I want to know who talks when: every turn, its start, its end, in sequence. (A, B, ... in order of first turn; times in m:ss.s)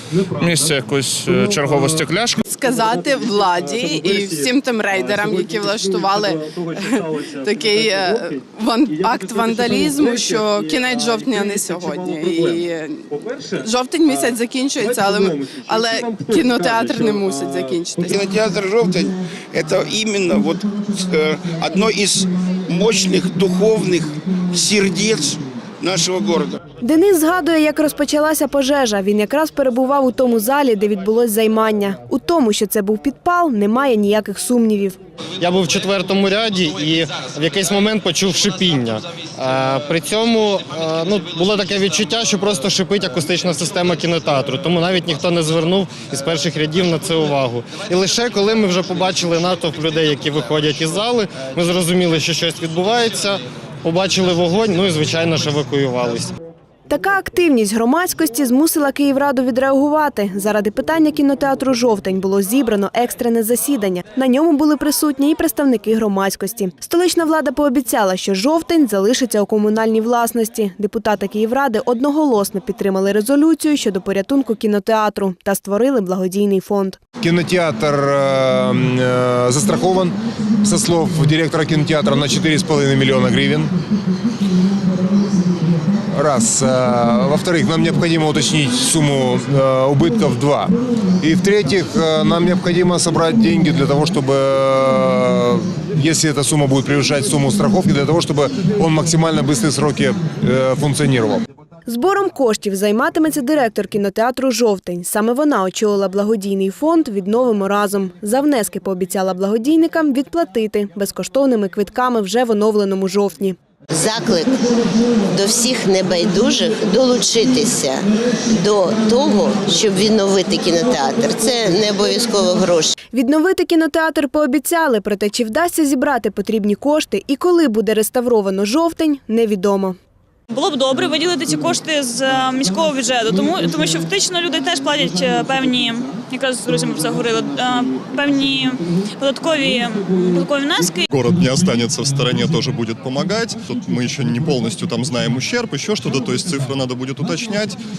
0:00.4-0:02.4 A
0:02.4-0:18.3 B
0:09.6-0:10.0 C
0:18.0-0:26.6 C
0:26.8-0:35.0 D
0:35.4-0:56.3 E
0:56.9-1:17.0 D
1:17.2-1:23.7 F
1:26.1-1:41.4 F
1:41.9-1:53.6 D
1:53.9-1:54.6 G
1:55.3-2:02.9 G
2:03.1-2:10.0 D
2:10.5-2:21.1 H
2:21.1-2:27.8 I